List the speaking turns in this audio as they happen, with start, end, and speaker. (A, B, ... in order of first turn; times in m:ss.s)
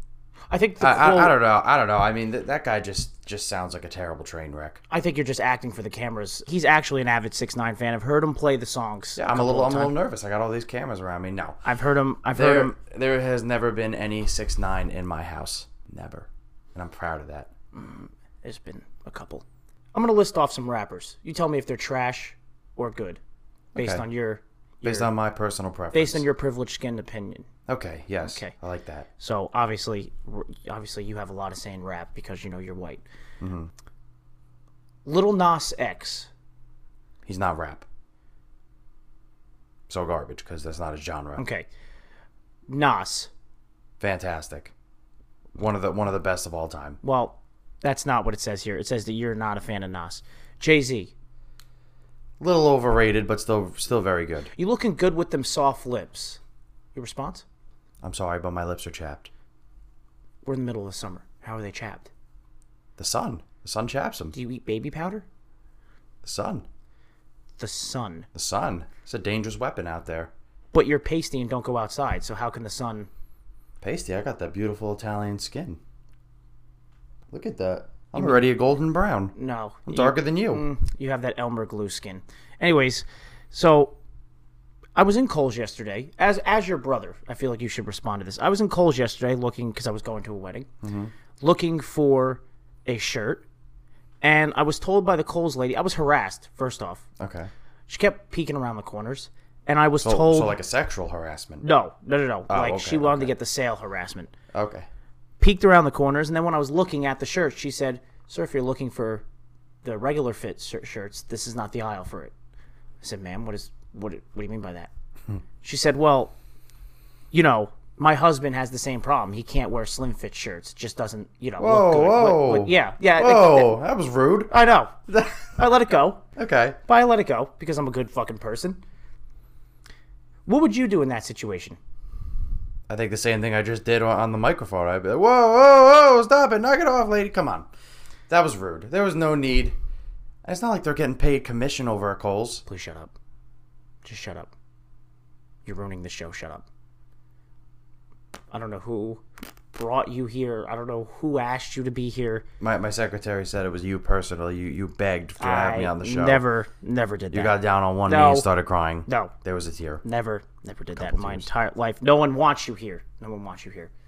0:00.5-0:01.4 A
0:00.8-0:04.8 B
0:04.9-0:09.9 A
0:09.2-0:11.6 B
0:11.6-0:12.7 A
0:12.3-0:17.5 B
0:17.7-0:23.2 A
0:23.7-0:25.1 A
0:23.8-0:24.0 B
0:24.8-0:26.3 B
0:25.9-0:27.5 A
0:27.7-0:29.1 B
0:28.2-0:28.5 A
0:29.2-0:33.0 A
0:33.4-0:33.7 B
0:35.0-0:36.3 A
0:37.2-0:37.9 B
0:39.9-0:41.4 B
0:41.4-0:41.7 A
0:42.7-0:43.3 A
0:44.0-0:44.7 B
0:45.6-0:47.0 B
0:47.0-0:51.1 A
0:52.4-0:54.5 B
0:54.5-0:56.4 A
0:56.9-0:57.4 A
0:58.0-0:59.3 B
1:00.4-1:02.1 A
1:03.0-1:04.4 B
1:04.3-1:05.2 A
1:06.2-1:06.7 B
1:07.6-1:08.3 A
1:08.3-1:10.3 B
1:10.7-1:13.1 A
1:13.8-1:15.8 B
1:17.3-1:19.3 B
1:18.1-1:18.4 A
1:19.3-1:24.0 A
1:19.8-1:20.6 B
1:25.0-1:30.7 A
1:30.8-1:31.1 B
1:31.4-1:33.4 A
1:34.2-1:37.0 A
1:37.2-1:37.5 B
1:37.9-1:40.6 A
1:40.0-1:41.6 B
1:41.6-1:44.3 A
1:42.5-1:43.3 B
1:44.5-1:44.9 B
1:45.4-1:49.2 A
1:49.8-1:52.3 A
1:53.0-1:54.9 A
1:55.6-1:56.3 A
1:57.3-2:03.8 A
2:01.6-2:04.5 B
2:04.5-2:06.2 A
2:06.4-2:06.8 B
2:06.8-2:08.8 A
2:10.4-2:11.8 A
2:12.9-2:17.7 B
2:18.3-2:19.8 B
2:20.4-2:22.6 B
2:22.6-2:23.1 A
2:24.0-2:24.5 A
2:25.6-2:26.6 A
2:28.5-2:29.2 A
2:29.7-2:32.4 A
2:32.6-2:36.4 B
2:35.4-2:38.5 A
2:37.3-2:40.0 B
2:39.1-2:39.3 A
2:40.0-2:43.9 A
2:41.0-2:41.5 B